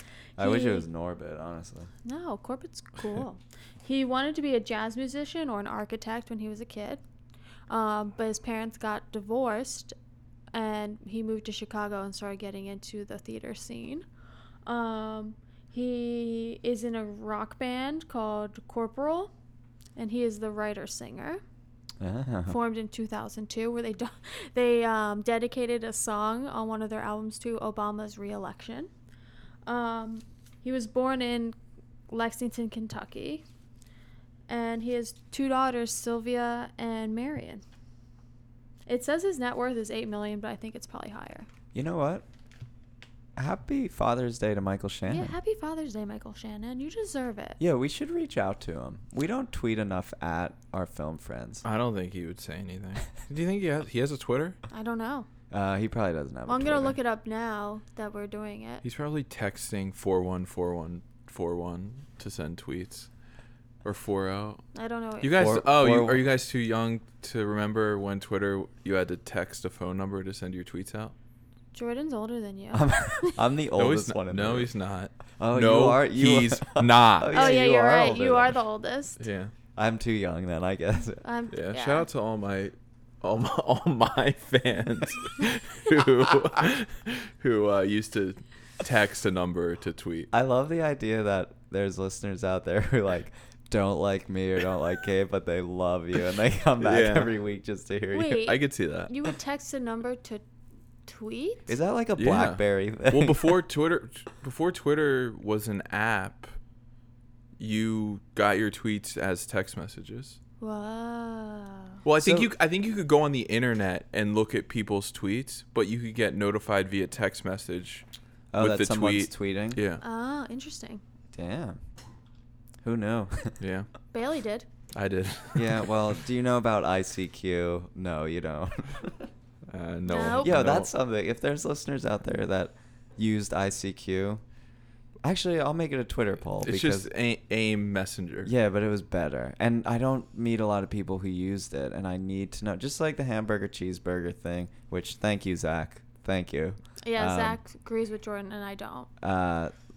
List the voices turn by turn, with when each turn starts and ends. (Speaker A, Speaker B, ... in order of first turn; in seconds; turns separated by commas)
Speaker A: 0.4-0.8, Speaker B: 0.4-1.9, Speaker A: 2.0-7.0, Speaker A: 7.7-9.9, Speaker A: 10.5-14.1, Speaker A: 14.7-19.3, Speaker A: 20.0-21.4, Speaker B: 22.0-22.6, Speaker A: 22.5-28.9, Speaker A: 29.7-31.6, Speaker A: 32.1-33.4, Speaker A: 34.5-37.6, Speaker A: 38.9-41.5, Speaker B: 41.7-42.2, Speaker B: 43.4-45.3, Speaker A: 45.1-47.6, Speaker B: 47.6-51.6, Speaker C: 51.6-54.6, Speaker A: 54.7-55.3, Speaker B: 55.5-57.0, Speaker A: 56.5-58.8, Speaker C: 58.8-63.1, Speaker C: 63.8-64.6, Speaker A: 64.8-65.5, Speaker C: 65.2-71.1, Speaker B: 65.3-66.2, Speaker A: 71.7-73.4, Speaker B: 72.7-74.7, Speaker C: 73.8-77.5, Speaker B: 75.4-78.6, Speaker A: 77.3-79.2, Speaker C: 79.2-79.5, Speaker B: 79.8-81.2, Speaker A: 81.2-82.1, Speaker C: 81.5-90.3, Speaker B: 90.3-98.4, Speaker C: 96.8-97.3, Speaker A: 98.1-100.4, Speaker C: 98.4-99.1, Speaker A: 101.1-101.7, Speaker B: 101.7-103.5, Speaker C: 102.2-106.5, Speaker C: 107.6-110.4, Speaker A: 110.6-112.0, Speaker C: 112.0-118.0, Speaker B: 112.2-112.5, Speaker B: 118.5-119.8, Speaker C: 118.6-120.0, Speaker A: 120.0-121.0, Speaker B: 121.3-121.8, Speaker B: 122.8-123.6, Speaker C: 123.6-123.9, Speaker A: 124.1-124.7, Speaker C: 125.0-126.1, Speaker B: 125.5-129.3, Speaker C: 129.7-130.9, Speaker A: 130.1-130.6, Speaker B: 130.3-134.4, Speaker B: 135.2-137.1, Speaker C: 136.6-138.5, Speaker B: 138.4-147.6, Speaker A: 147.1-149.1, Speaker B: 149.2-149.7